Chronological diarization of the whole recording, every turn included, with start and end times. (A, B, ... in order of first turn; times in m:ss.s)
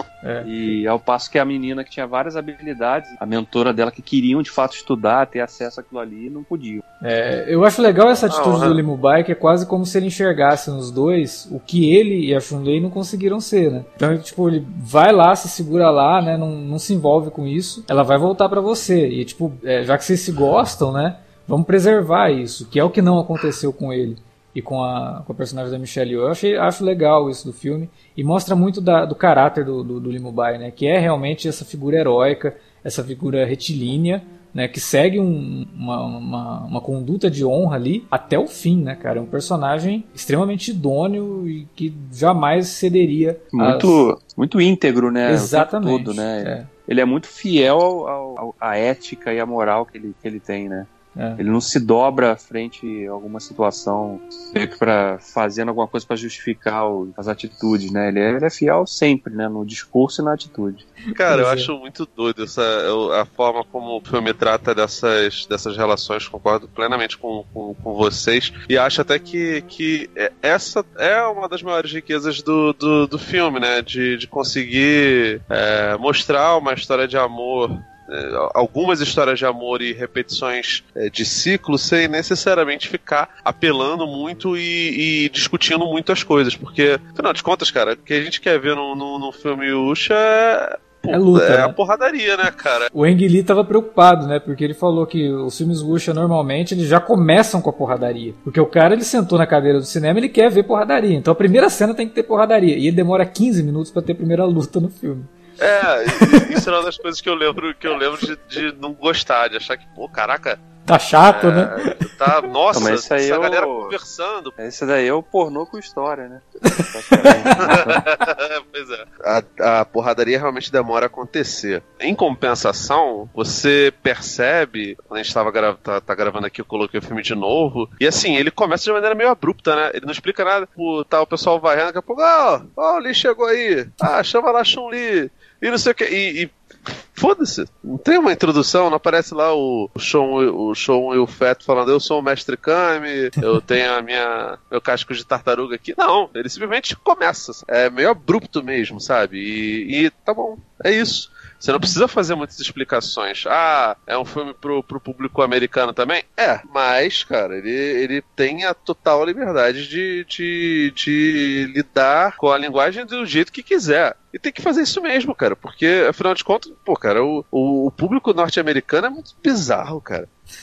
0:00.2-0:00.5 A
0:00.4-0:06.8 B
0:07.0-0:44.0 A
0:08.3-0:08.8 C
0:43.5-1:00.9 B
0:45.2-0:46.7 A
0:51.2-0:51.4 A
1:01.1-1:32.9 C
1:01.2-1:01.7 A
1:31.1-1:31.7 A
1:32.9-1:45.3 A
1:45.6-1:50.6 C
1:46.1-1:46.6 A
1:50.8-1:52.3 A
1:51.2-1:54.5 C
1:52.7-1:54.0 B
1:54.6-1:58.0 B
1:56.7-1:58.0 A
1:57.6-2:50.3 C